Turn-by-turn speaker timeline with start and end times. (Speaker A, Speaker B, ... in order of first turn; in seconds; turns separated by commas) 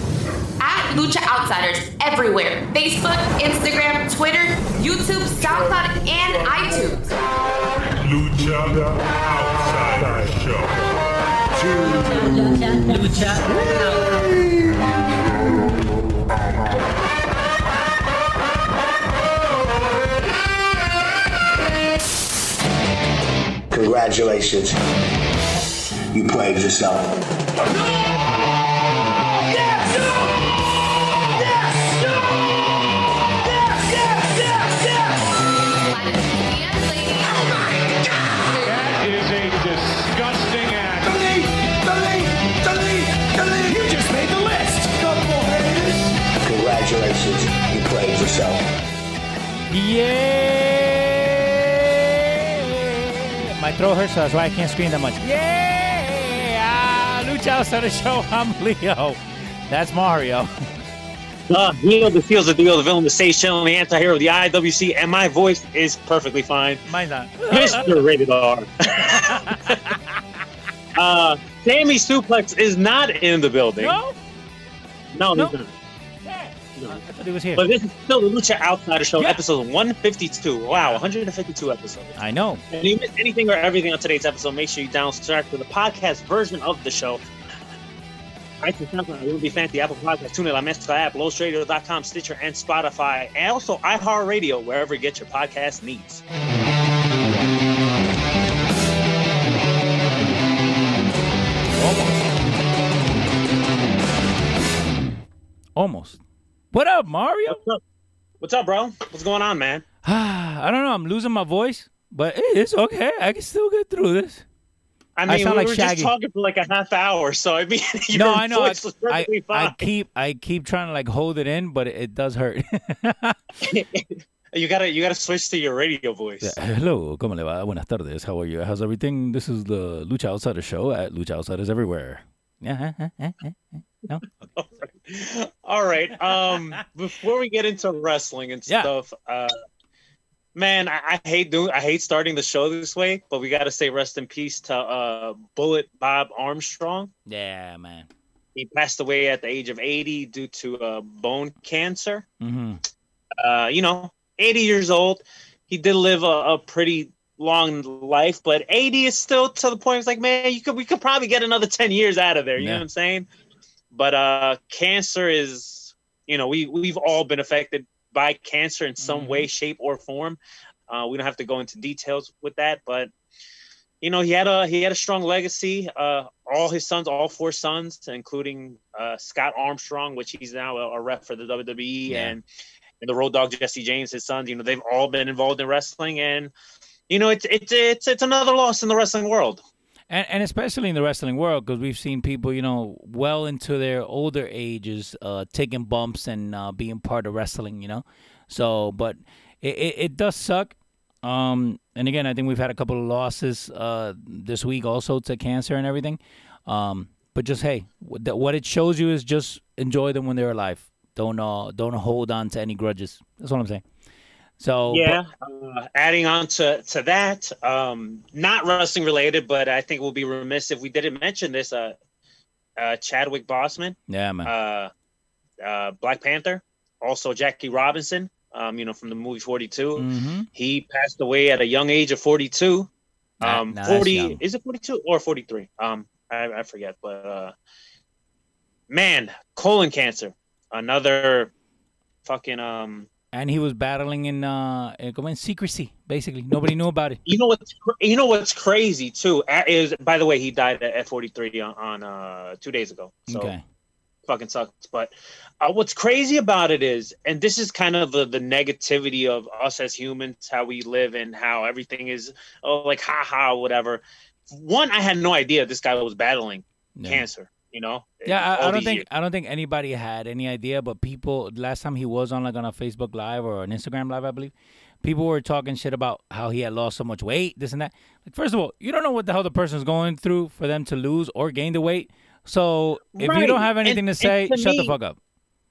Speaker A: 0.6-7.1, Speaker B: 8.0-10.7, Speaker C: 23.7-24.8, Speaker C: 26.1-27.1, Speaker D: 29.6-29.8, Speaker D: 33.6-35.0, Speaker A: 35.9-37.8, Speaker A: 38.5-39.0, Speaker B: 38.6-41.4, Speaker D: 41.0-46.1, Speaker C: 46.4-48.7, Speaker E: 49.7-60.5, Speaker F: 61.5-66.8, Speaker E: 66.9-68.0, Speaker F: 67.5-69.9, Speaker E: 69.1-70.2, Speaker F: 70.9-74.0, Speaker E: 73.8-74.2, Speaker F: 75.1-75.7, Speaker E: 76.2-77.6, Speaker F: 77.5-82.2, Speaker E: 82.2-82.6, Speaker F: 82.7-87.2, Speaker F: 88.6-96.2, Speaker E: 101.8-102.3, Speaker E: 105.8-106.2, Speaker E: 106.7-107.6, Speaker F: 107.5-107.8, Speaker F: 108.4-109.8, Speaker E: 110.0-114.4, Speaker F: 115.2-119.9, Speaker E: 115.3-116.1, Speaker E: 118.1-123.4, Speaker F: 123.6-126.5, Speaker E: 126.4-134.2, Speaker F: 134.6-139.6, Speaker F: 140.5-147.1, Speaker E: 147.3-148.1, Speaker F: 148.5-152.2, Speaker E: 152.4-152.8, Speaker F: 153.4-163.3, Speaker E: 162.6-162.8, Speaker F: 163.9-173.1, Speaker E: 169.0-169.5, Speaker F: 174.0-182.4, Speaker E: 182.1-182.3, Speaker F: 183.0-186.5, Speaker F: 187.1-189.6, Speaker E: 190.1-213.8, Speaker E: 214.6-215.2, Speaker F: 214.9-222.0, Speaker F: 222.8-224.9, Speaker E: 224.1-224.5, Speaker F: 225.6-232.9, Speaker E: 229.9-230.5, Speaker F: 233.4-237.5, Speaker E: 233.4-234.4, Speaker F: 238.9-241.5, Speaker F: 242.2-243.1, Speaker E: 243.3-247.2, Speaker F: 247.2-253.5, Speaker E: 253.3-253.6, Speaker F: 254.3-269.1, Speaker E: 267.0-267.2, Speaker E: 268.2-285.2, Speaker F: 283.1-284.9